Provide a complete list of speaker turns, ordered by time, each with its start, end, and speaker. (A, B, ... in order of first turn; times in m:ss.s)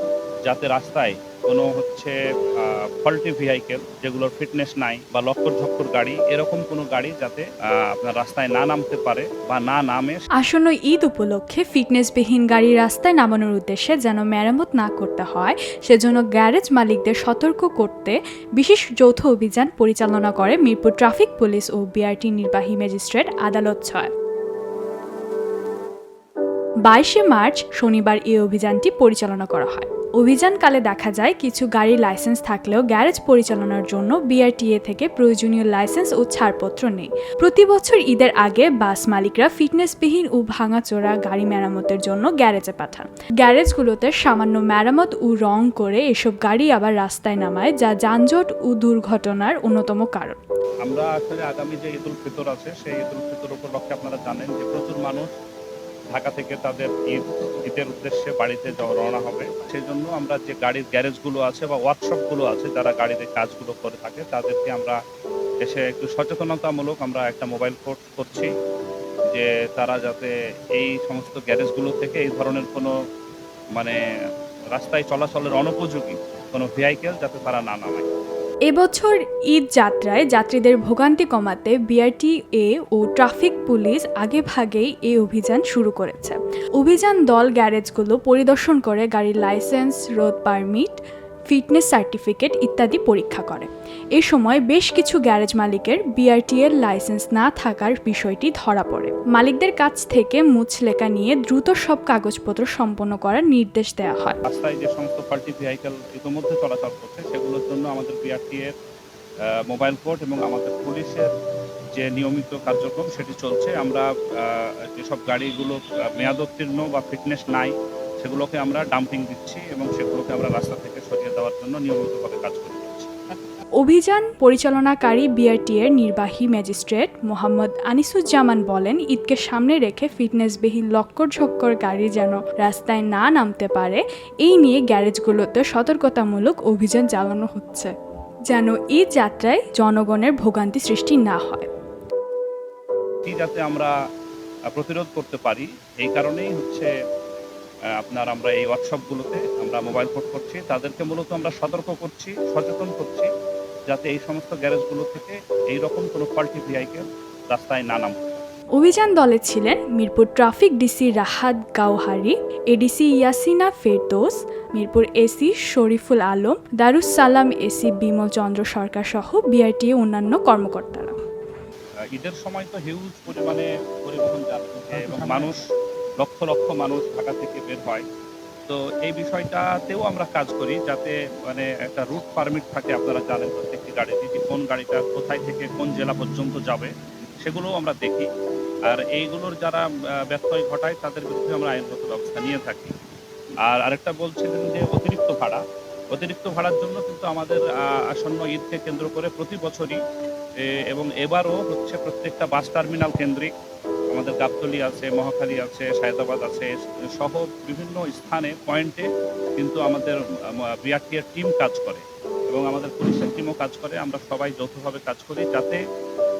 0:00.4-0:10.2 A
0:10.4-0:24.1 B
0:26.9-0:50.4 B
0:50.8-0:55.3 A
0:56.1-1:05.0 A
1:05.6-1:08.5 A
1:09.3-1:12.9 A
1:14.7-1:18.0 A
1:18.7-1:31.0 B
1:31.5-1:44.4 B
1:44.5-1:48.7 A
1:49.7-1:51.3 A
1:51.9-2:03.1 A
2:03.8-2:17.9 B
2:18.5-2:21.6 B
2:23.2-2:23.9 A
2:24.7-2:26.9 A
2:28.0-2:33.3 A
2:33.9-2:38.4 A
2:38.8-2:51.1 B
2:52.1-2:55.6 A
2:56.2-2:58.0 A
2:58.7-3:06.9 A
3:07.4-3:08.3 A
3:08.9-3:12.9 A
3:13.6-3:15.6 A
3:16.1-3:20.0 A
3:20.9-3:23.5 A
3:24.1-3:29.0 A
3:29.6-3:30.1 A
3:30.8-3:35.8 A